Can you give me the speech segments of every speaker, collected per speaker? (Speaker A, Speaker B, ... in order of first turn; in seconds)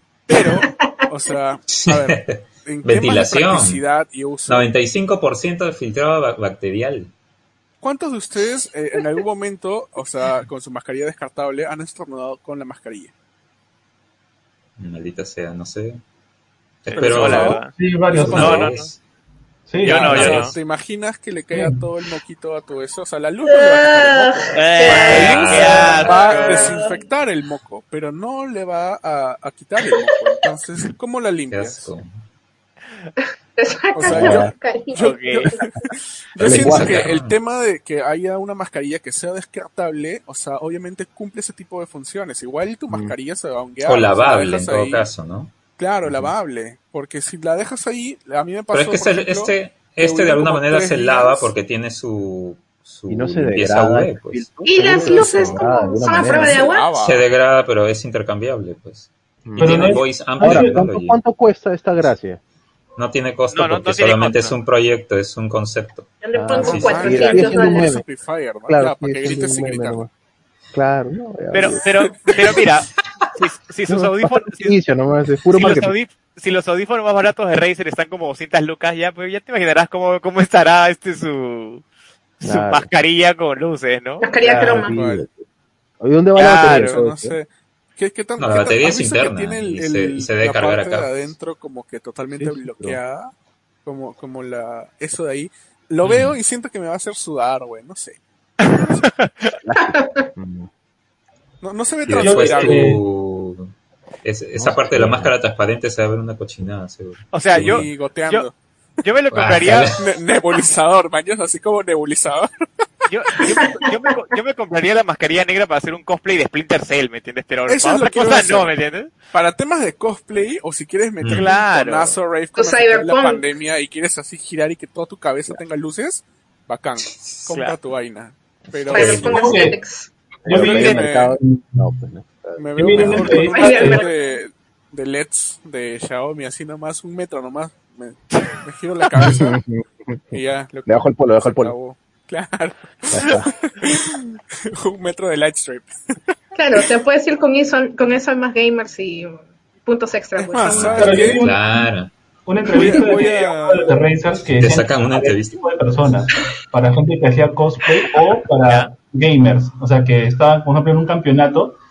Speaker A: 0.3-4.7, 7.8-13.1, 16.9-17.7, 18.2-18.8, 19.9-31.9, 33.9-45.1, 45.8-51.5, 54.8-57.3, 66.6-70.0, 84.4-85.2, 86.4-93.3, 93.8-99.0, 101.6-102.9, 107.5-108.6, 109.9-112.5, 117.7-118.7, 119.3-129.6, 130.5-131.4, 132.6-139.6, 140.3-146.0, 150.4-151.4, 152.7-154.0
Speaker B: 0.3-1.4, 23.5-27.0, 33.6-35.6, 54.6-56.9, 66.2-68.0, 84.2-85.0, 99.8-100.3, 113.6-114.1, 122.5-123.5, 128.9-130.1, 133.4-134.1, 146.6-151.3
Speaker C: 1.7-3.8, 4.5-7.1, 14.8-16.0, 16.8-19.0, 19.9-20.5, 25.1-26.2, 31.5-32.1, 36.4-37.4, 43.8-45.5, 48.7-54.5, 57.0-61.2, 63.0-66.1, 66.6-67.2, 88.4-91.3, 96.0-96.4, 102.1-103.7, 104.2-107.9, 109.3-110.1, 121.2-121.5, 128.9-129.4, 150.7-152.1, 154.6-155.7
Speaker D: 16.9-17.7, 18.3-18.9, 19.8-20.6, 24.5-26.7, 35.0-35.5, 63.5-64.5, 71.5-74.8, 75.5-81.8, 82.4-84.3, 86.4-87.0, 98.6-99.5, 107.3-108.5, 109.0-110.0, 113.1-119.1, 121.3-122.2, 127.5-127.8, 158.7-158.9
Speaker E: 17.8-18.8, 19.7-20.5, 21.5-21.8, 59.6-60.9, 102.2-103.0, 129.2-129.8, 130.4-131.9, 132.8-134.0, 151.0-151.9, 152.5-161.8
Speaker F: 34.1-34.5, 36.4-37.0, 42.9-43.2, 53.1-56.7, 59.5-62.4, 66.3-68.0, 68.7-70.1, 70.7-71.8, 73.9-75.9, 82.4-82.9, 84.4-85.4, 86.0-87.4, 92.3-93.0, 99.6-100.7, 104.6-105.3, 130.4-133.4, 139.2-141.8, 143.1-143.5